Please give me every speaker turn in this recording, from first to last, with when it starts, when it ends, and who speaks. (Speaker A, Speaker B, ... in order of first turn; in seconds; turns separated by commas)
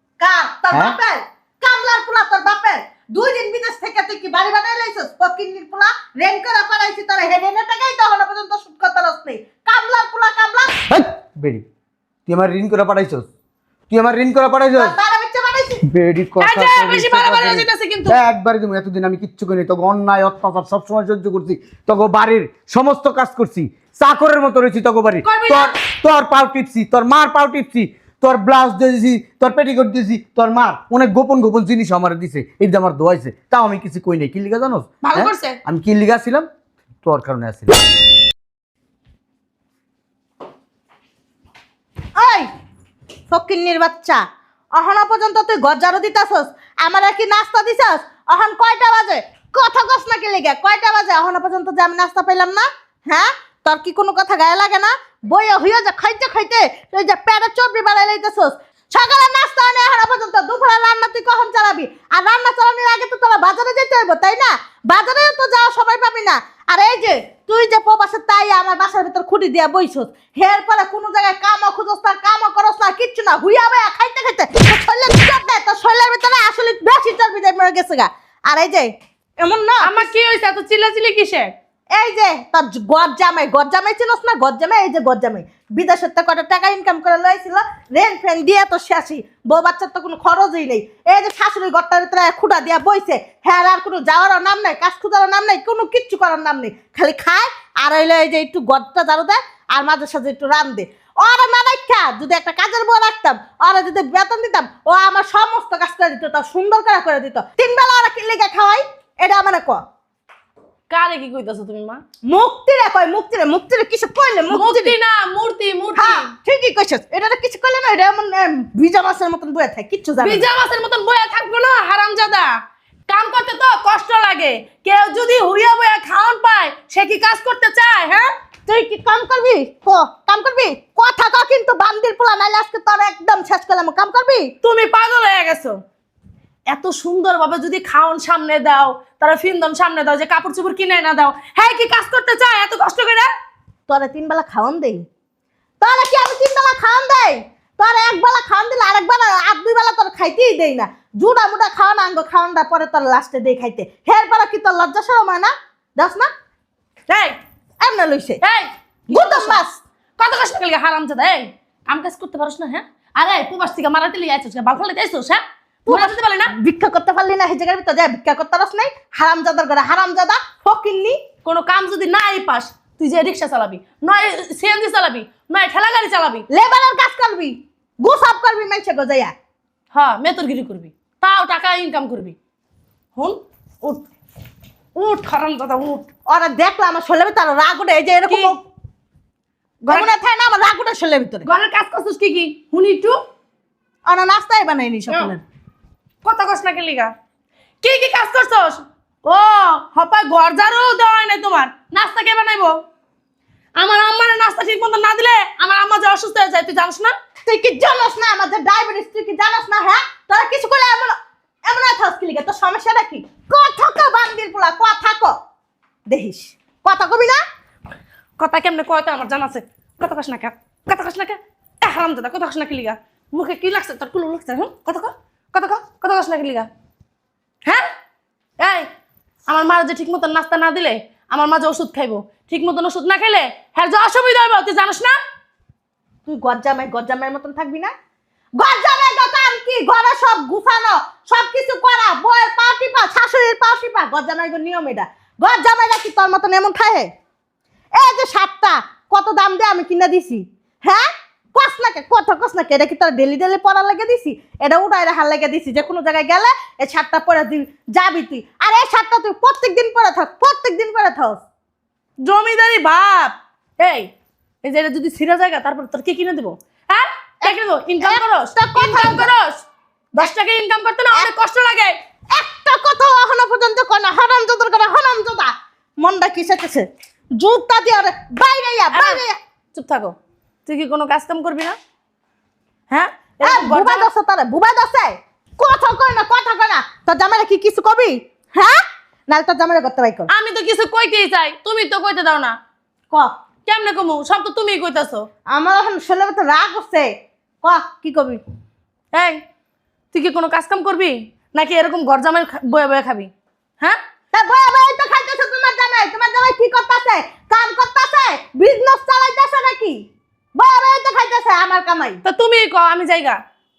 Speaker A: 0.2-10.8, Speaker B: 10.9-11.6, Speaker B: 12.3-13.3, Speaker B: 13.9-14.9, Speaker A: 14.8-15.8, Speaker B: 15.8-36.5, Speaker C: 16.4-18.2, Speaker C: 25.2-25.8, Speaker C: 35.0-35.6, Speaker B: 37.0-37.8, Speaker A: 42.2-42.5, Speaker A: 43.3-44.2, Speaker A: 44.8-80.1, Speaker C: 79.8-81.5, Speaker A: 81.9-109.8, Speaker C: 110.9-112.0, Speaker A: 112.3-115.0, Speaker C: 114.5-116.3, Speaker A: 116.0-120.5, Speaker C: 120.2-128.3, Speaker A: 128.7-134.5, Speaker C: 134.6-135.8, Speaker C: 136.7-143.3, Speaker A: 143.9-145.1, Speaker A: 145.8-156.3, Speaker C: 157.1-157.4, Speaker A: 157.8-158.4, Speaker C: 158.4-159.6, Speaker A: 159.1-159.8, Speaker C: 160.2-166.5, Speaker A: 165.9-171.2, Speaker C: 171.4-176.5, Speaker A: 176.5-179.3, Speaker C: 179.9-182.4, Speaker C: 183.2-184.0, Speaker C: 185.0-186.1, Speaker A: 186.3-188.6, Speaker C: 188.3-188.6, Speaker A: 189.9-191.5, Speaker C: 191.5-193.2, Speaker A: 194.1-195.4, Speaker C: 195.1-195.3, Speaker C: 196.2-197.1, Speaker C: 197.8-202.8, Speaker C: 203.8-207.1, Speaker A: 207.5-215.3, Speaker A: 216.1-217.4, Speaker C: 218.4-226.7, Speaker C: 227.7-227.9, Speaker C: 228.6-228.9, Speaker C: 229.5-235.2, Speaker A: 236.3-237.9, Speaker A: 238.6-247.1, Speaker A: 248.0-261.4, Speaker C: 262.2-264.1, Speaker C: 264.6-269.6, Speaker A: 267.4-269.3, Speaker C: 270.1-272.0, Speaker A: 272.3-279.4, Speaker C: 278.9-279.2, Speaker C: 279.7-281.8, Speaker C: 282.9-284.1, Speaker A: 283.4-290.3, Speaker C: 290.3-292.6, Speaker C: 293.7-295.3, Speaker A: 295.5-297.1, Speaker A: 297.6-298.4, Speaker C: 299.1-299.4, Speaker C: 300.1-304.0, Speaker A: 304.3-312.2, Speaker C: 312.2-313.4